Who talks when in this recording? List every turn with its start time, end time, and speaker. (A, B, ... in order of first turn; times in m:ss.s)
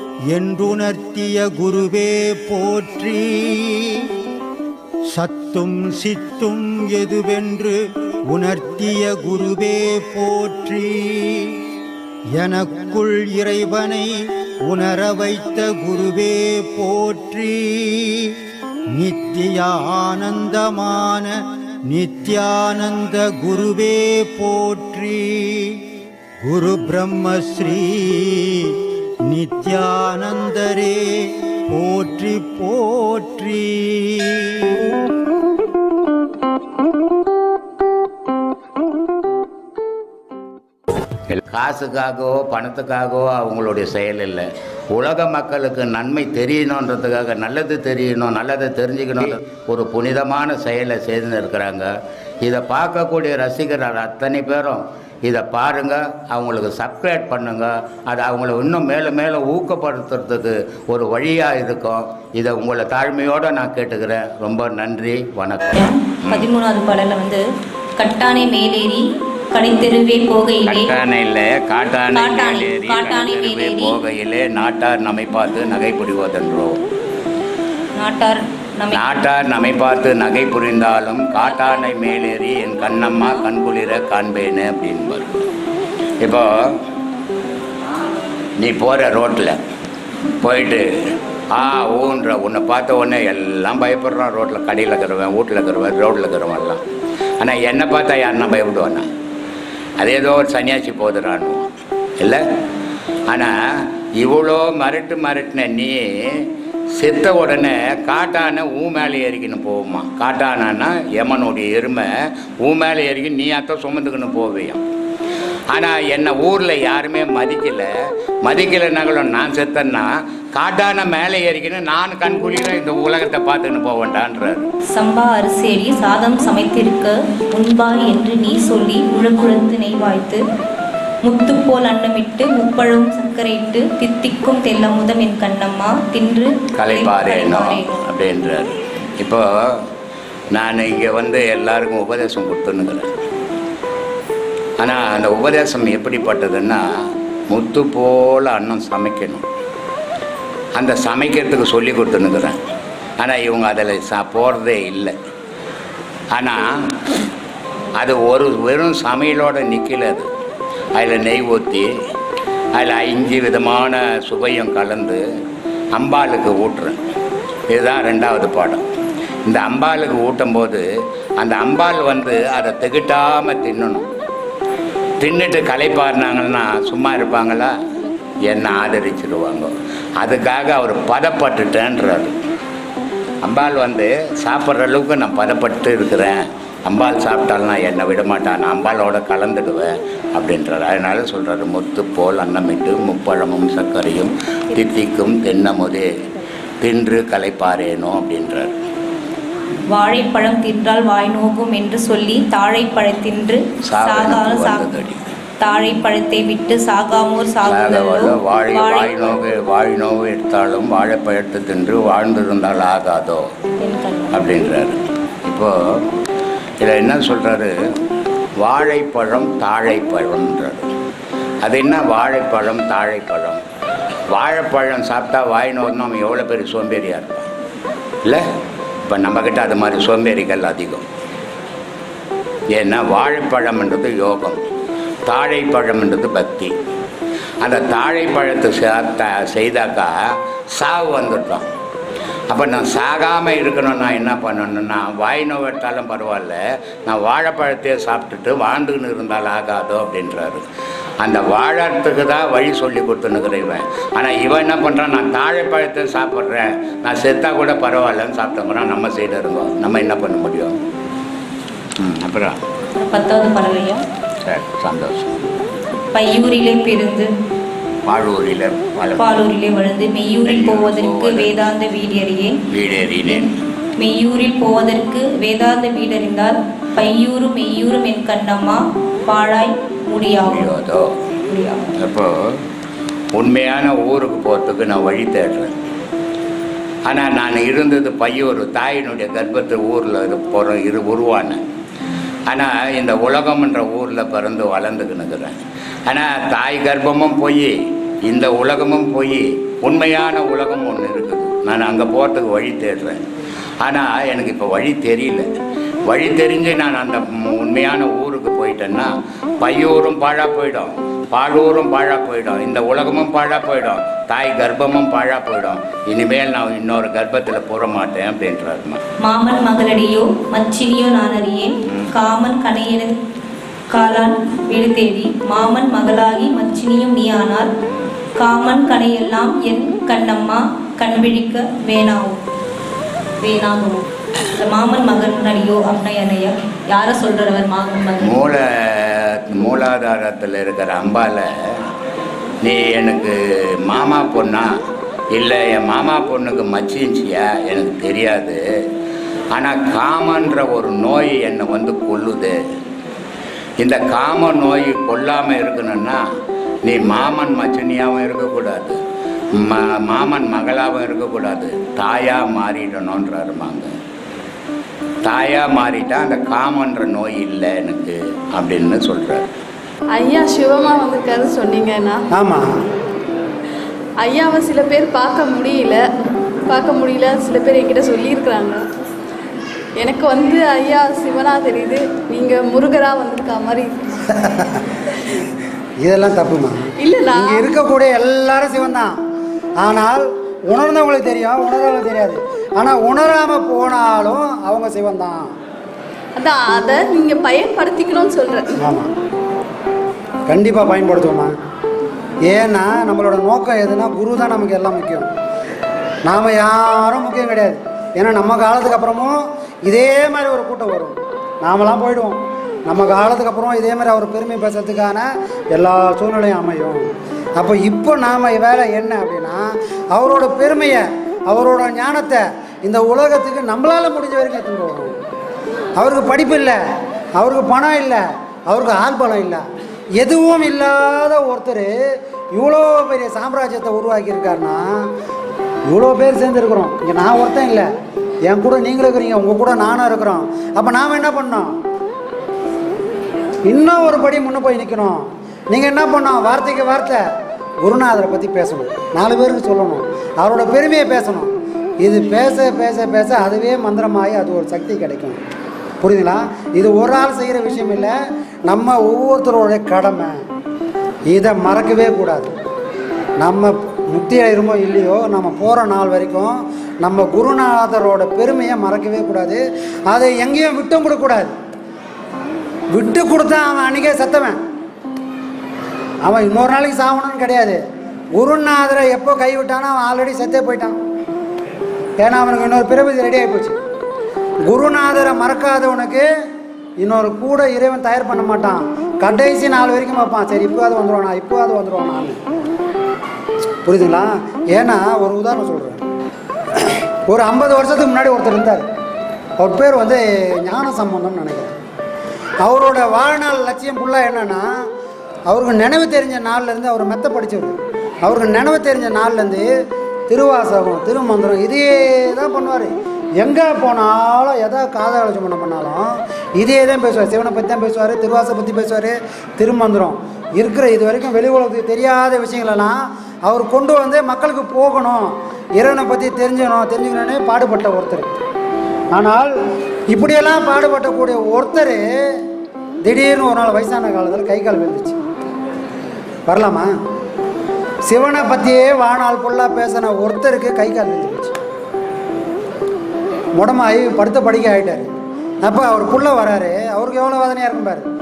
0:00.3-0:04.1 A
0:05.1-0:07.8 A
0:08.3-0:11.6 A
0:12.3-0:25.9 A
0:26.4-0:34.8 A
0:41.3-0:51.9 B
0:52.4-1:06.5 B
1:05.7-1:07.4 C
1:08.0-1:10.9 C
1:10.6-1:16.8 B
1:12.0-1:14.0 C
1:18.0-1:19.1 C
1:18.9-1:25.4 B
1:21.4-1:22.2 C
1:23.0-1:23.4 C
1:26.2-1:26.5 B
1:28.6-1:29.6 B
1:30.4-1:30.9 B
1:31.5-1:36.8 B
1:37.4-1:39.0 B
1:40.0-1:41.6 B
1:43.3-1:43.5 B
1:44.2-1:52.1 B
1:52.6-1:54.8 B
1:55.7-1:57.9 B
1:58.4-2:04.7 B
2:04.9-2:10.4 C
2:11.2-2:18.0 C
2:16.8-2:19.4 B
2:20.5-2:23.1 B
2:24.8-2:26.8 B
2:27.5-2:29.4 B
2:30.7-2:32.6 B
2:33.2-2:35.1 B
2:36.3-2:36.7 B
2:38.0-2:40.3 B
2:40.9-2:41.9 B
2:42.7-2:45.2 B
2:45.9-2:47.0 B
2:47.7-2:48.8 B
2:49.4-2:50.8 B
2:51.4-2:54.1 B
2:55.2-2:57.7 B
2:58.4-3:02.4 B
3:03.4-3:16.1 B
3:16.8-3:18.8 B
3:19.9-3:24.9 C
3:23.9-3:25.2 B
3:25.6-3:29.4 C
3:27.6-3:33.5 B
3:33.8-3:34.5 C
3:34.3-3:35.7 B
3:36.8-3:37.7 B
3:38.6-3:40.8 B
3:41.6-3:43.6 B
3:44.3-3:47.5 B
3:49.0-3:51.0 B
3:52.7-3:54.6 B
3:55.2-3:56.7 B
3:57.6-4:00.1 B
4:00.7-4:01.7 B
4:02.5-4:10.6 B
4:11.2-4:20.8 B
4:22.0-4:22.6 B
4:22.9-4:24.0 C
4:24.4-4:25.4 B
4:26.1-4:27.3 C
4:28.0-4:29.3 B
4:29.2-4:32.6 C
4:30.4-4:31.6 B
4:32.7-4:33.5 B
4:34.0-4:40.7 C
4:40.4-4:41.1 B
4:41.5-4:41.9 C
4:42.0-4:42.3 B
4:43.3-4:45.7 B
4:47.0-4:51.6 B
4:52.5-4:57.7 B
4:58.2-5:03.2 B
5:03.8-5:05.4 B
5:06.1-5:19.0 B
5:19.2-5:23.1 C
5:23.9-5:27.7 C
5:28.4-5:32.4 C
5:33.4-5:38.6 C
5:38.2-5:41.4 B
5:42.6-5:44.7 B
5:45.3-5:48.6 B
5:49.5-5:52.6 B
5:53.8-5:56.2 B
5:56.8-5:59.0 B
5:59.5-6:03.9 B
6:05.2-6:09.5 B
6:10.1-6:12.2 D
6:12.3-6:12.7 E
6:14.2-6:16.0 D
6:16.7-6:18.8 D
6:20.0-6:24.1 D
6:24.3-6:24.8 E
6:26.0-6:29.2 E
6:27.0-6:27.7 D
6:29.8-6:35.5 E
6:36.4-6:38.8 D
6:38.8-6:39.1 E
6:40.5-6:41.5 E
6:42.5-6:45.3 E
6:46.2-7:05.1 E
7:06.0-7:06.8 E
7:07.4-7:09.6 E
7:10.2-7:11.9 E
7:12.5-7:15.1 E
7:15.9-7:17.9 E
7:18.4-7:21.7 E
7:23.6-7:27.2 E
7:27.8-7:31.5 E
7:32.0-7:35.4 E
7:36.0-7:38.1 E
7:38.6-7:40.4 E
7:41.3-7:42.5 E
7:43.4-7:51.5 E
7:52.9-7:54.6 E
7:56.2-7:57.8 E
7:58.3-8:01.0 E
8:02.2-8:03.8 E
8:04.7-8:06.3 E
8:07.0-8:12.4 E
8:13.8-8:16.0 E
8:17.3-8:18.8 E
8:19.6-8:21.7 E
8:22.6-8:24.7 E
8:25.5-8:29.7 E
8:30.3-8:48.3 E
8:49.1-8:49.5 E
8:50.1-8:52.0 E
8:53.0-8:55.2 E
8:56.5-8:56.9 E
8:58.0-9:01.6 E
9:03.5-9:05.1 E
9:05.6-9:08.0 E